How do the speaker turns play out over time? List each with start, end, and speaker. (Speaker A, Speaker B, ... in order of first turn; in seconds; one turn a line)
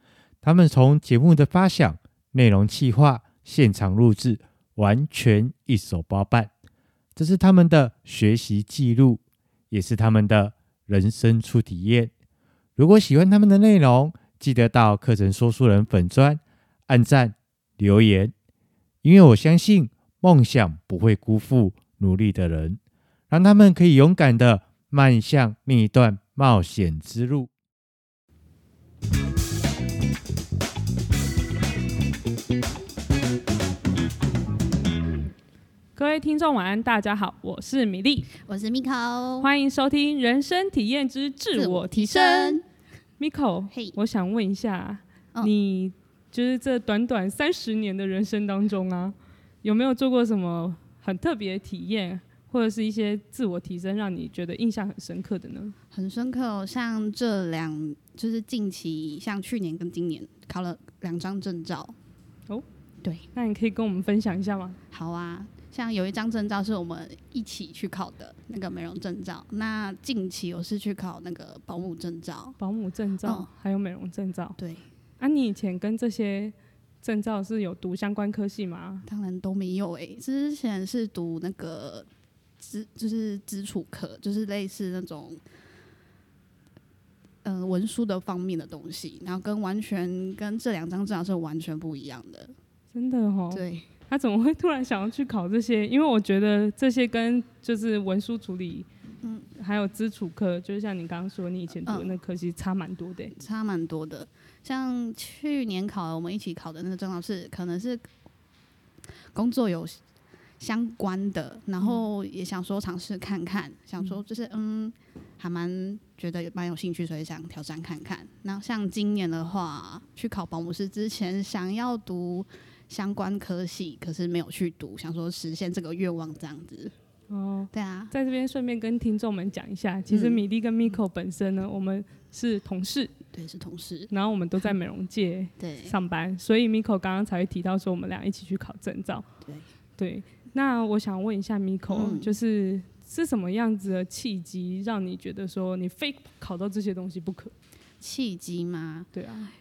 Speaker A: 0.4-6.5
Speaker A: 7.2-12.1
Speaker A: 12.8-18.3
Speaker A: 19.0-22.8
Speaker A: 23.3-27.5
Speaker B: 36.0-38.3
Speaker C: 38.4-39.5
Speaker B: 39.4-42.6
Speaker C: 41.5-42.6
Speaker B: 43.2-55.7
Speaker C: 55.9-61.9
Speaker C: 63.0-63.3
Speaker B: 63.3-64.8
Speaker C: 64.9-72.6
Speaker B: 72.6-74.6
Speaker C: 73.2-73.5
Speaker C: 74.6-74.9
Speaker B: 75.2-79.0
Speaker C: 79.0-82.1
Speaker C: 82.6-85.4
Speaker C: 87.4-92.5
Speaker B: 92.9-98.9
Speaker C: 93.5-93.9
Speaker C: 99.2-99.5
Speaker B: 99.5-103.3
Speaker C: 101.8-102.2
Speaker C: 103.3-108.1
Speaker C: 109.3-110.0
Speaker C: 110.6-126.9
Speaker B: 127.3-133.1
Speaker C: 127.7-128.1
Speaker C: 130.1-130.4
Speaker C: 133.3-134.1
Speaker B: 134.1-139.2
Speaker C: 135.6-135.9
Speaker B: 140.0-147.5
Speaker C: 141.9-142.4
Speaker C: 148.0-149.1
Speaker B: 149.1-149.5